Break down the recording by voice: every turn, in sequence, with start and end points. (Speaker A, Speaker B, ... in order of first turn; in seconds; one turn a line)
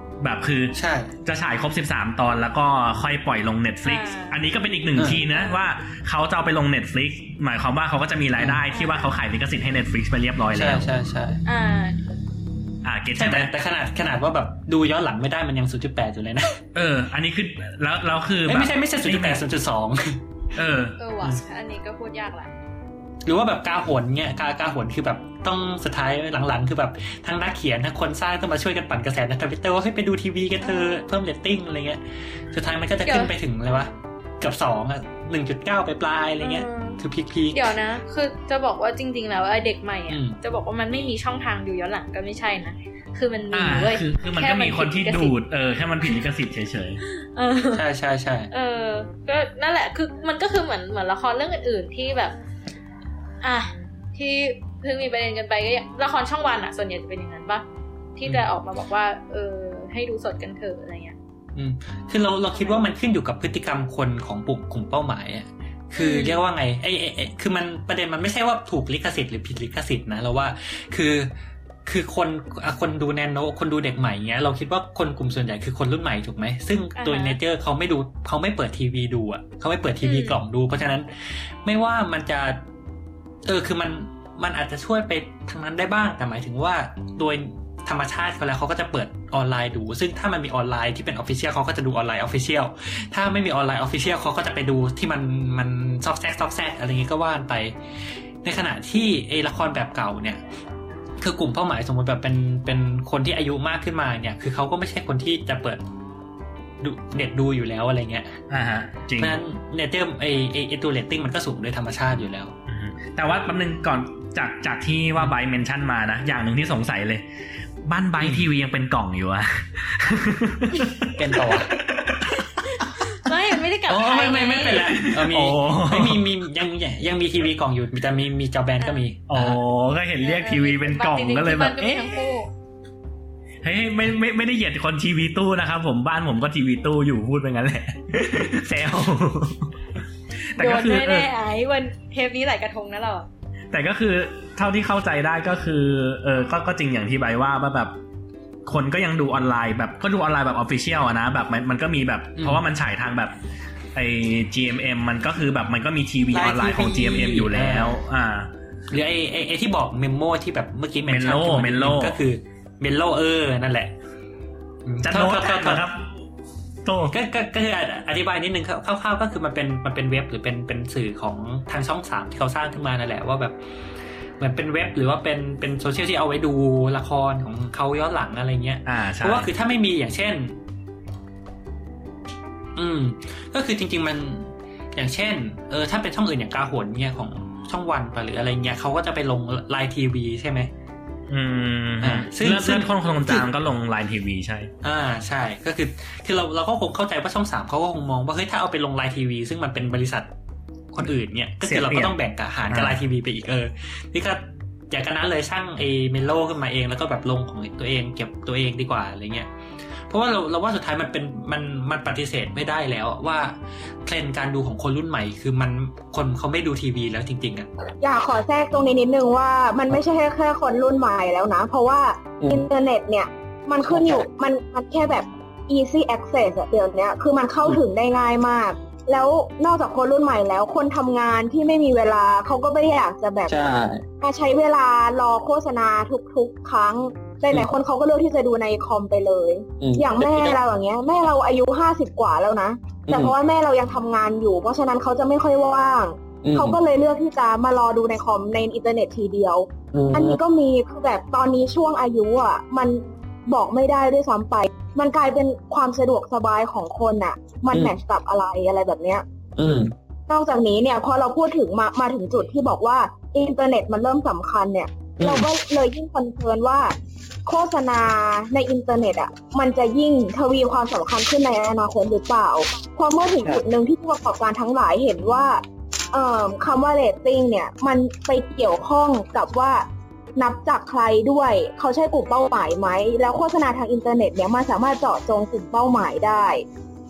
Speaker A: 0.2-10.9
Speaker B: 0.8-1.1
Speaker C: 3.8-4.4
Speaker B: 5.0-5.2
Speaker C: 8.7-9.1
Speaker B: 10.5-11.4
Speaker C: 11.4-12.0
Speaker A: 12.8-13.5
Speaker B: 13.2-16.6
Speaker A: 16.7-19.4
Speaker B: 18.5-20.2
Speaker A: 20.5-20.9
Speaker C: 21.0-22.5
Speaker B: 23.2-37.6
Speaker C: 33.0-33.3
Speaker C: 36.4-37.0
Speaker C: 37.5-45.3
Speaker B: 40.1-40.4
Speaker A: 43.5-47.0
Speaker C: 47.1-47.8
Speaker B: 47.7-48.5
Speaker C: 48.5-52.3
Speaker C: 53.4-57.6
Speaker C: 58.2-61.1
Speaker B: 61.5-71.3
Speaker C: 62.5-62.9
Speaker C: 66.0-66.4
Speaker B: 71.8-82.6
Speaker C: 77.0-77.4
Speaker C: 80.0-80.4
Speaker B: 83.5-97.7
Speaker B: 98.4-100.4
Speaker B: 101.2-105.8
Speaker B: 106.8-108.4
Speaker A: 108.5-109.4
Speaker B: 109.2-112.5
Speaker A: 112.7-117.2
Speaker A: 117.8-122.5
Speaker B: 121.1-121.7
Speaker C: 122.7-124.9
Speaker B: 123.9-129.6
Speaker A: 124.6-126.3
Speaker A: 129.3-132.2
Speaker C: 130.2-132.5
Speaker A: 133.6-139.8
Speaker A: 140.5-141.3
Speaker C: 140.6-143.3
Speaker A: 143.7-147.9
Speaker A: 148.6-153.3
Speaker B: 152.3-152.6
Speaker A: 153.9-158.5
Speaker B: 156.3-158.0
Speaker B: 158.9-163.9
Speaker A: 161.1-162.2
Speaker B: 164.8-165.8
Speaker A: 165.0-166.1
Speaker A: 166.8-167.1
Speaker B: 167.1-173.6
Speaker B: 174.4-180.6
Speaker A: 178.8-179.5
Speaker B: 182.8-190.7
Speaker A: 191.3-194.7
Speaker B: 192.0-193.5
Speaker B: 194.8-200.3
Speaker B: 200.9-209.5
Speaker A: 201.6-202.2
Speaker A: 202.7-203.0
Speaker B: 210.1-217.7
Speaker D: 218.0-233.7
Speaker E: 222.4-222.6
Speaker E: 223.8-224.2
Speaker E: 233.5-234.0
Speaker D: 234.2-259.2
Speaker E: 239.8-240.6
Speaker E: 243.1-243.3
Speaker E: 246.4-246.8
Speaker E: 249.9-250.4
Speaker E: 259.6-259.9
Speaker D: 260.3-266.9
Speaker E: 265.2-265.5
Speaker D: 267.4-279.9
Speaker D: 280.4-286.6